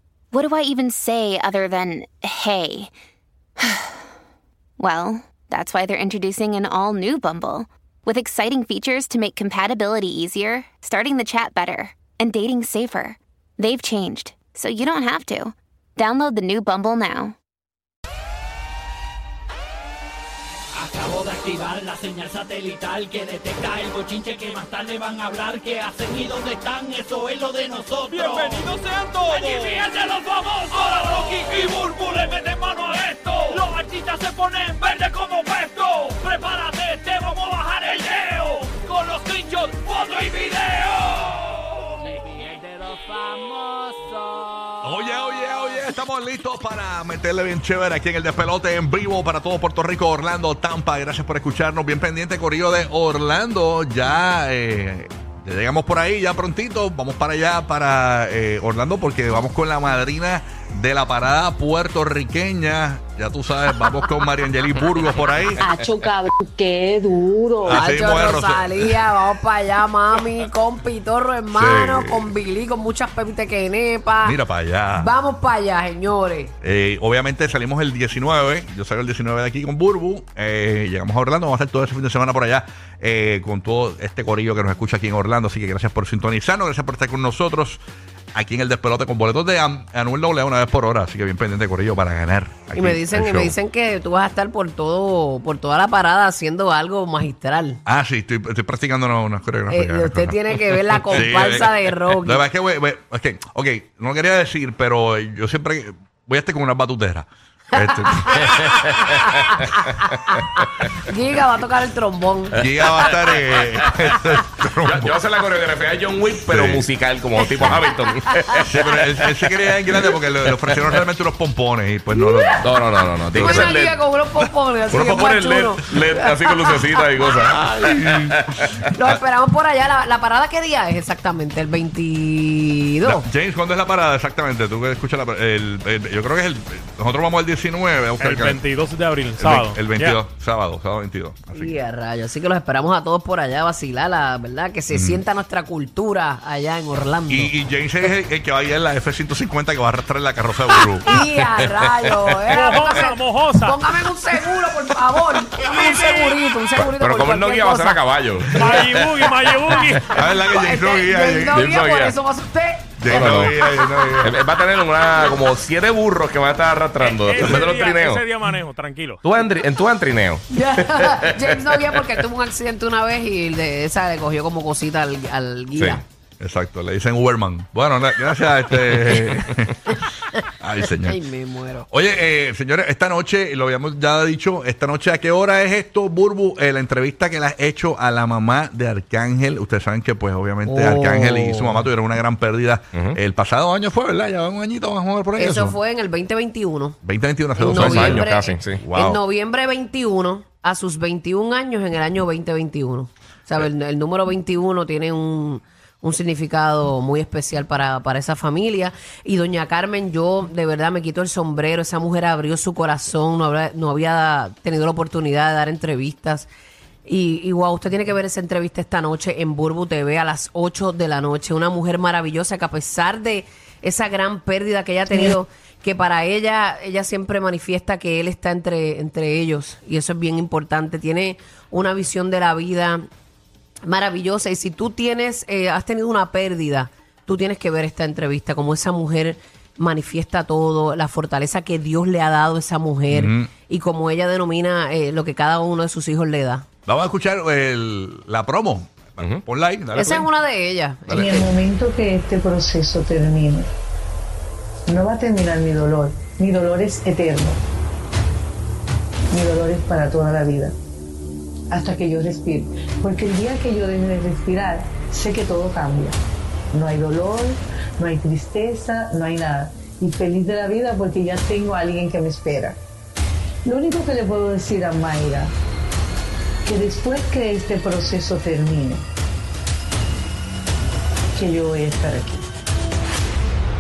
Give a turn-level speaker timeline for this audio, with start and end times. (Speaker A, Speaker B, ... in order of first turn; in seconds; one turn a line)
Speaker A: 0.3-2.9
Speaker A: 3.6-4.0
Speaker A: 4.8-17.4
Speaker B: 20.8-41.9
Speaker C: 42.0-44.5
Speaker D: 44.8-65.6
Speaker E: 65.6-67.9
Speaker D: 67.6-69.0
Speaker C: 67.7-74.4
Speaker D: 71.5-72.3
Speaker D: 74.2-75.1
Speaker C: 74.9-76.5
Speaker D: 76.6-87.8
Speaker D: 88.3-93.5
Speaker C: 92.8-97.8
Speaker D: 97.9-100.6
Speaker C: 99.7-102.4
Speaker D: 101.1-108.8
Speaker C: 107.8-113.1
Speaker D: 112.6-115.2
Speaker F: 113.8-114.1
Speaker F: 114.8-119.0
Speaker D: 116.5-116.9
Speaker C: 117.4-118.6
Speaker D: 117.5-117.8
Speaker D: 118.7-122.7
Speaker C: 122.1-122.7
Speaker F: 122.6-124.0
Speaker D: 123.3-125.4
Speaker C: 123.3-127.7
Speaker F: 125.3-128.7
Speaker D: 127.4-129.2
Speaker C: 128.9-133.3
Speaker D: 133.0-138.6
Speaker G: 138.2-140.2
Speaker D: 139.4-141.8
Speaker C: 141.5-147.5
Speaker D: 144.9-145.2
Speaker D: 147.3-151.2
Speaker C: 151.0-158.0
Speaker G: 152.5-153.9
Speaker G: 155.6-156.3
Speaker F: 156.8-159.8
Speaker G: 158.6-160.3
Speaker D: 159.8-161.6
Speaker C: 159.8-164.3
Speaker F: 161.5-162.2
Speaker D: 163.0-164.3
Speaker F: 163.1-163.6
Speaker F: 164.2-168.5
Speaker G: 167.0-169.5
Speaker D: 167.4-167.7
Speaker F: 169.2-171.9
Speaker C: 170.5-176.0
Speaker F: 175.8-176.0
Speaker D: 176.4-180.0
Speaker C: 179.1-181.9
Speaker D: 180.6-181.2
Speaker D: 181.9-195.8
Speaker C: 190.7-191.9
Speaker F: 192.9-193.2
Speaker C: 195.4-197.0
Speaker D: 197.0-199.2
Speaker C: 197.6-216.5
Speaker F: 197.7-198.8
Speaker C: 217.1-233.1
Speaker C: 233.8-246.7
Speaker D: 243.1-243.5
Speaker D: 246.9-250.3
Speaker C: 249.9-251.6
Speaker D: 251.1-251.5
Speaker E: 251.1-253.7
Speaker E: 254.9-257.6
Speaker E: 259.3-260.8
Speaker E: 261.7-266.2
Speaker E: 266.7-272.8
Speaker E: 273.6-275.5
Speaker E: 276.7-279.1
Speaker E: 281.4-282.5